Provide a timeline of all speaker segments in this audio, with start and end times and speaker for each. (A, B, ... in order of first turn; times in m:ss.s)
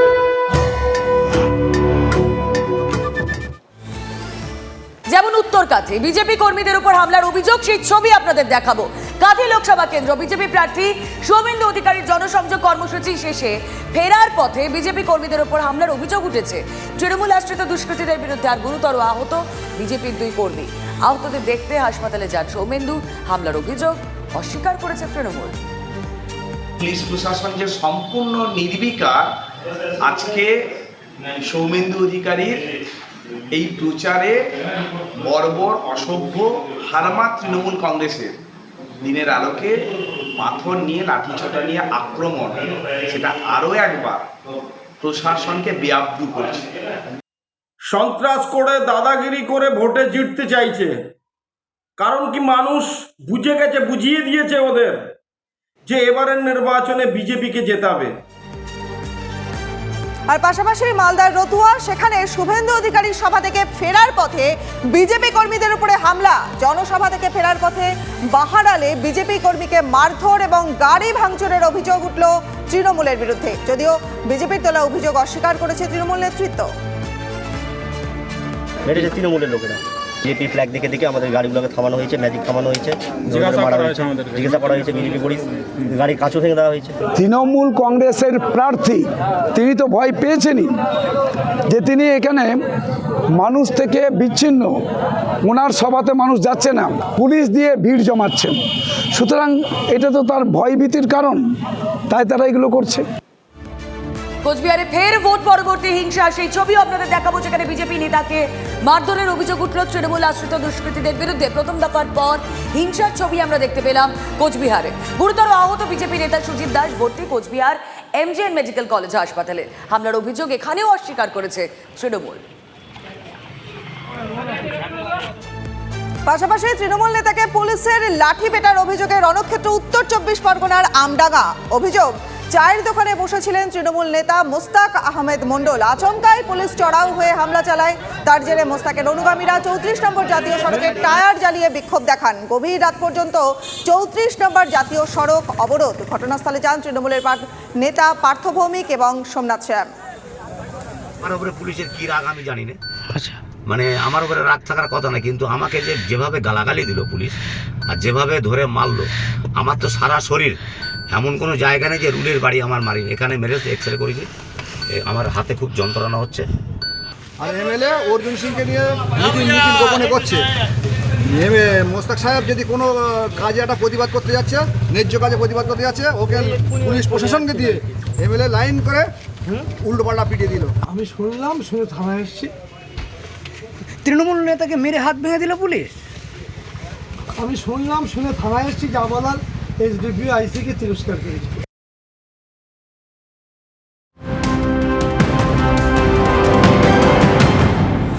0:05.1-0:25.6 A
0:26.9-0:29.1 B
0:30.1-0:30.4 B
0:31.5-0:32.5 B
0:33.6-0:34.3 B
0:35.3-0:36.4 B
0:36.9-0:38.2 B
0:39.1-0:39.7 B
0:40.4-0:42.5 B
0:43.1-0:44.2 B
0:45.1-0:46.5 B
0:47.9-0:51.0 C
0:52.0-0:55.0 C
0:55.8-0:58.1 C
1:00.3-1:16.7 D
1:18.8-1:27.0 E
1:27.2-1:30.7 F
1:31.7-1:32.6 F
1:33.4-1:34.8 F
1:35.4-1:38.6 F
1:39.1-1:41.4 F
1:42.1-1:43.0 F
1:44.4-2:02.4 A
2:06.2-2:29.9 D
2:31.2-2:32.8 G
2:33.7-2:37.4 G
2:37.9-2:40.6 G
2:41.1-2:44.3 G
2:44.9-2:46.5 G
2:47.4-2:50.4 H
2:51.3-2:59.1 H
2:59.8-3:00.7 H
3:00.8-3:02.5 I
3:04.0-3:06.0 J
3:07.3-3:11.5 I